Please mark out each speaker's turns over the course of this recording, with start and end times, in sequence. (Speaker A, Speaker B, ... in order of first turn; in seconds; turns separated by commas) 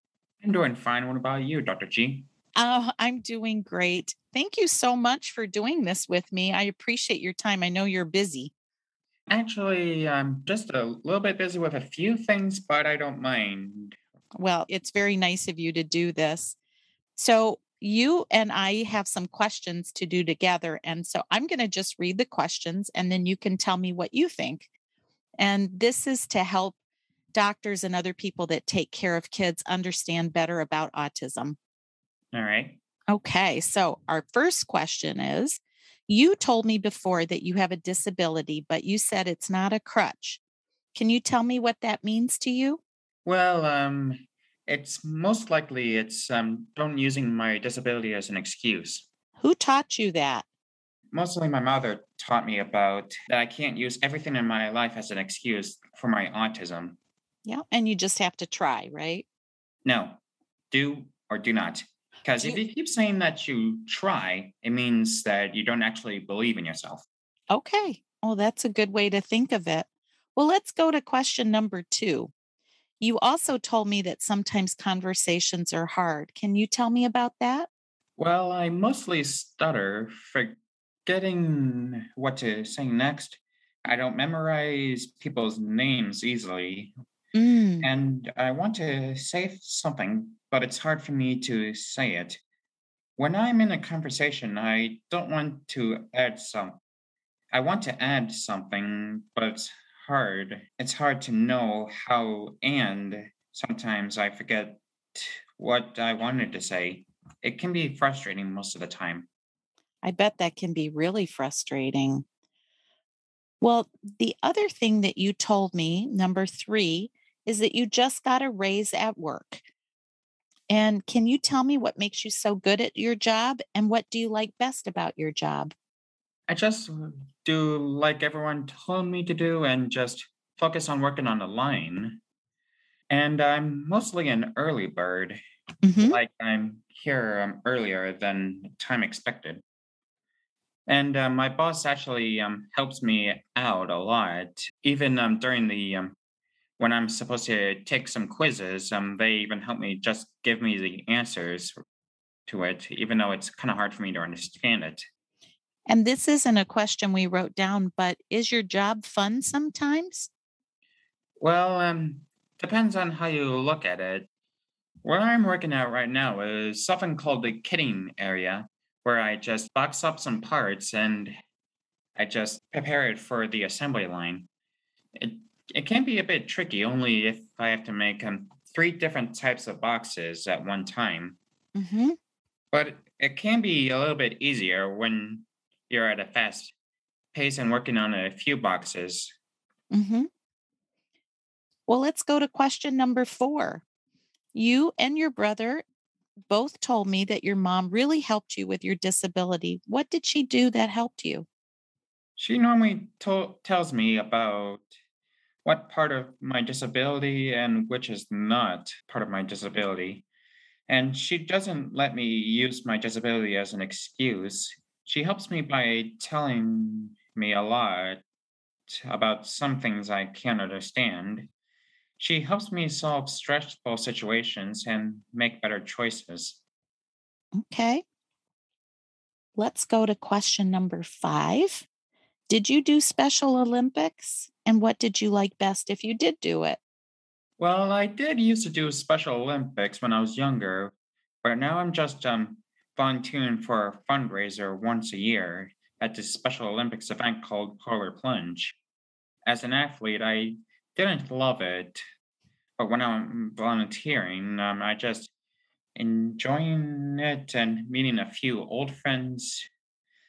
Speaker A: 0.4-2.3, Speaker B: 2.5-8.5, Speaker A: 9.3-14.0, Speaker B: 14.4-16.6, Speaker B: 17.1-24.7, Speaker B: 25.4-26.7, Speaker B: 27.3-31.6, Speaker A: 32.3-32.8, Speaker B: 33.1-40.4, Speaker B: 40.9-42.8, Speaker A: 43.2-49.1, Speaker B: 49.4-50.5, Speaker A: 51.1-57.0, Speaker B: 57.5-59.2, Speaker A: 59.8-60.2, Speaker A: 60.7-67.1, Speaker B: 67.5-72.3, Speaker B: 73.0-77.7, Speaker A: 78.2-86.9, Speaker B: 87.3-87.9, Speaker A: 87.8-92.4, Speaker A: 93.2-96.8, Speaker A: 97.5-109.3, Speaker B: 110.0-112.2, Speaker B: 113.6-119.6, Speaker B: 120.7-125.7, Speaker A: 126.5-132.2, Speaker A: 133.1-135.4, Speaker B: 135.8-136.2, Speaker A: 136.0-139.6, Speaker A: 140.9-146.1, Speaker A: 146.8-151.8, Speaker A: 152.5-155.1, Speaker B: 155.9-160.3, Speaker A: 161.4-164.3, Speaker A: 165.0-171.3, Speaker A: 172.2-174.5, Speaker A: 175.1-181.4, Speaker B: 181.7-182.2, Speaker A: 182.7-186.7, Speaker A: 187.3-189.3, Speaker B: 189.9-190.3, Speaker B: 191.9-193.8, Speaker B: 194.5-195.8, Speaker B: 196.5-201.5, Speaker A: 202.4-204.9, Speaker A: 205.6-210.2, Speaker A: 210.9-218.2, Speaker A: 218.9-221.5, Speaker A: 222.2-226.6, Speaker B: 227.6-228.0, Speaker B: 229.6-231.9, Speaker B: 232.5-236.8, Speaker A: 237.6-240.9, Speaker A: 241.4-248.8, Speaker A: 249.4-252.0, Speaker A: 252.8-255.3, Speaker A: 255.9-259.7